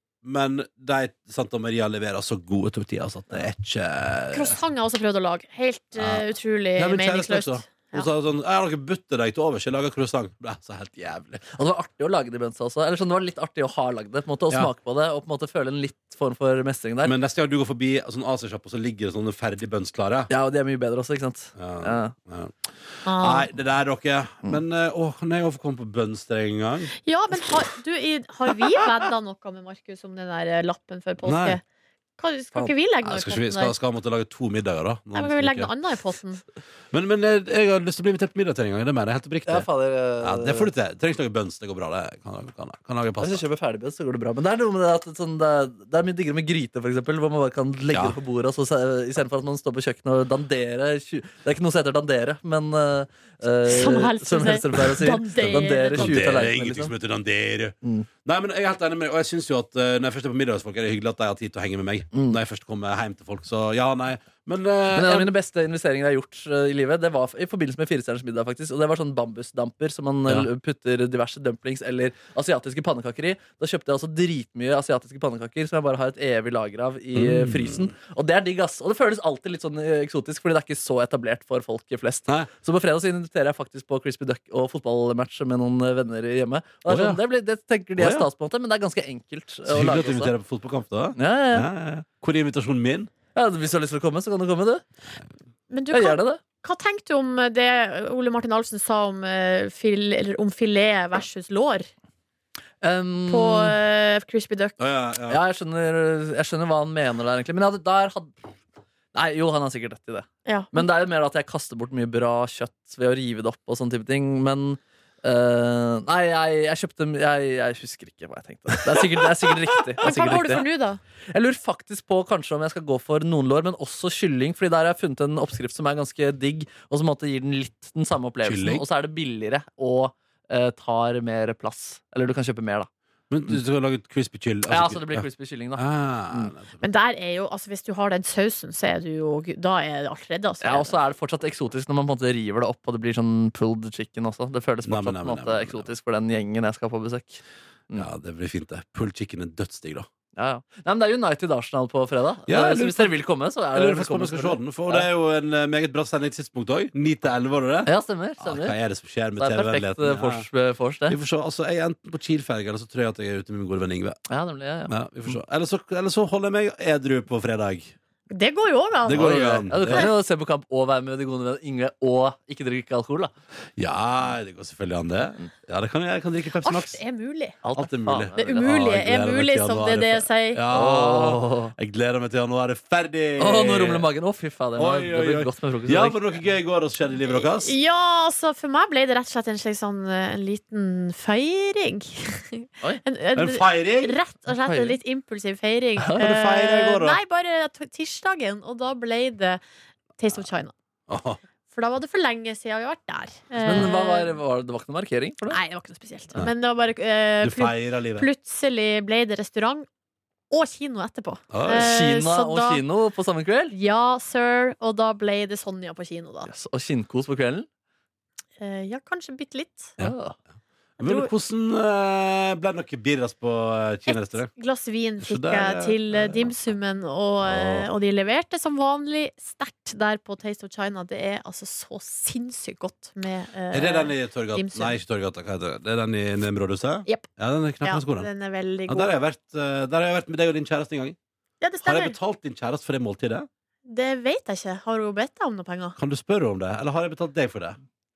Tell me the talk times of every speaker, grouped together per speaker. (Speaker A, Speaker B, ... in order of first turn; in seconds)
Speaker A: 0.2-4.6, 5.9-11.4, 17.0-20.3, 21.6-27.4, 28.6-28.9, 31.2-31.6, 33.0-35.7, 36.9-39.6, 40.2-43.4, 47.9-48.2, 55.4-65.3, 77.1-77.9, 86.9-87.2, 88.0-88.3, 89.7-93.1, 104.8-105.4, 128.4-128.8, 133.3-136.8, 144.8-145.9, 147.9-150.1, 152.5-153.1, 153.7-160.4, 161.1-164.2, 164.9-167.9, 169.1-170.1, 173.8-177.0, 177.7-184.1, 184.8-187.8, 193.3-194.2, 196.1-197.2, 201.1-201.4, 207.4-208.3, 211.5-211.9, 221.0-224.5, 225.2-226.6, 227.4-227.9, 233.7-238.3, 238.9-241.2, 241.8-243.5, 246.0-247.8
Speaker B: 4.3-8.1, 23.0-23.5, 27.0-31.6, 32.2-33.7, 35.1-36.4, 53.6-56.1, 95.7-101.9, 103.3-104.8, 110.4-110.8, 120.0-121.0, 136.8-140.9, 168.3-169.2, 176.6-177.6, 178.3-180.6, 187.2-199.6, 200.2-200.7, 201.7-204.4, 205.5-209.8, 210.5-212.8, 213.7-216.5, 218.6-219.9, 221.0-221.3, 224.1-235.0, 237.8-239.2, 241.6-242.2, 243.8-246.0
Speaker C: 11.4-17.1, 20.3-22.1, 39.5-40.7, 43.2-56.9, 64.9-90.3, 91.2-91.7, 93.3-94.8, 95.9-96.4, 102.8-103.8, 105.3-108.3, 109.1-120.7, 121.3-132.9, 134.7-136.5, 140.6-148.1, 150.3-155.1, 157.9-158.8, 159.4-161.2, 164.3-165.4, 169.1-173.3, 177.6-178.6, 180.7-181.7, 183.4-186.2, 194.5-195.0, 196.0-196.2, 203.6-205.6, 211.7-213.7, 216.4-217.7, 220.0-220.3